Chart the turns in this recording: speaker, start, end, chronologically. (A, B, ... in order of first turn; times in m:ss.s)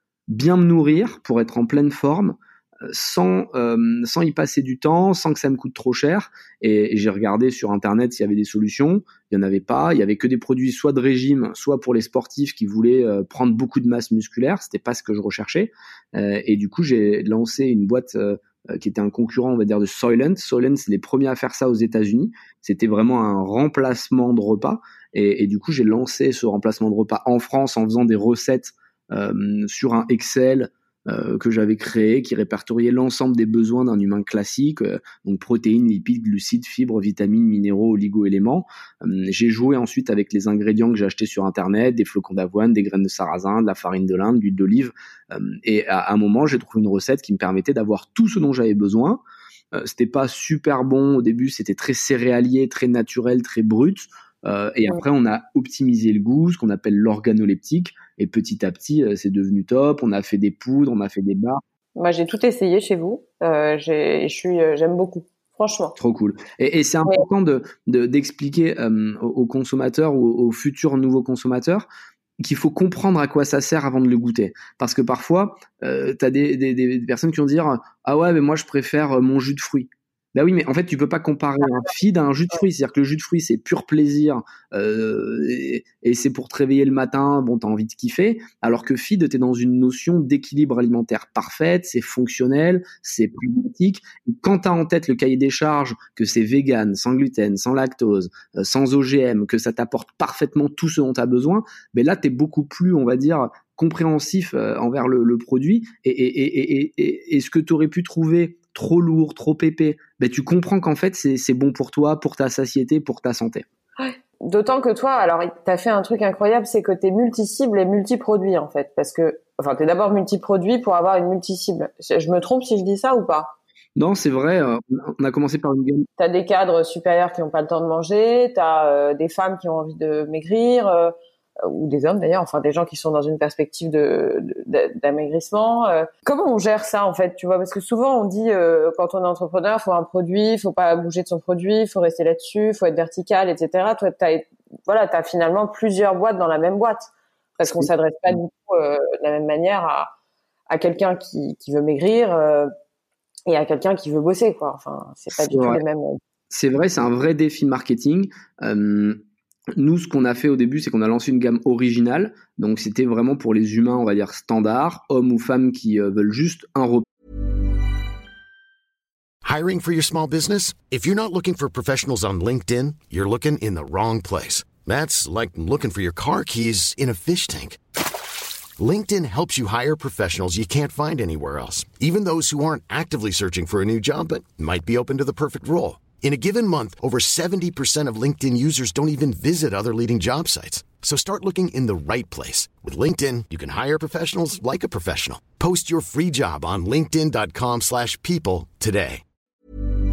0:00.3-0:49.2 A
0:49.7-1:01.6 A
1:02.0-1:06.0 B
1:06.0-1:11.9 A
1:12.4-1:53.6 A
1:54.0-2:03.5 B
2:04.0-2:06.1 A
2:06.2-2:30.1 B
2:30.7-2:32.7 B
2:33.5-2:36.2 B
2:35.4-2:35.8 A
2:36.5-2:39.2 A
2:39.7-2:47.1 A
2:49.4-2:57.8 C
2:58.8-3:19.2 C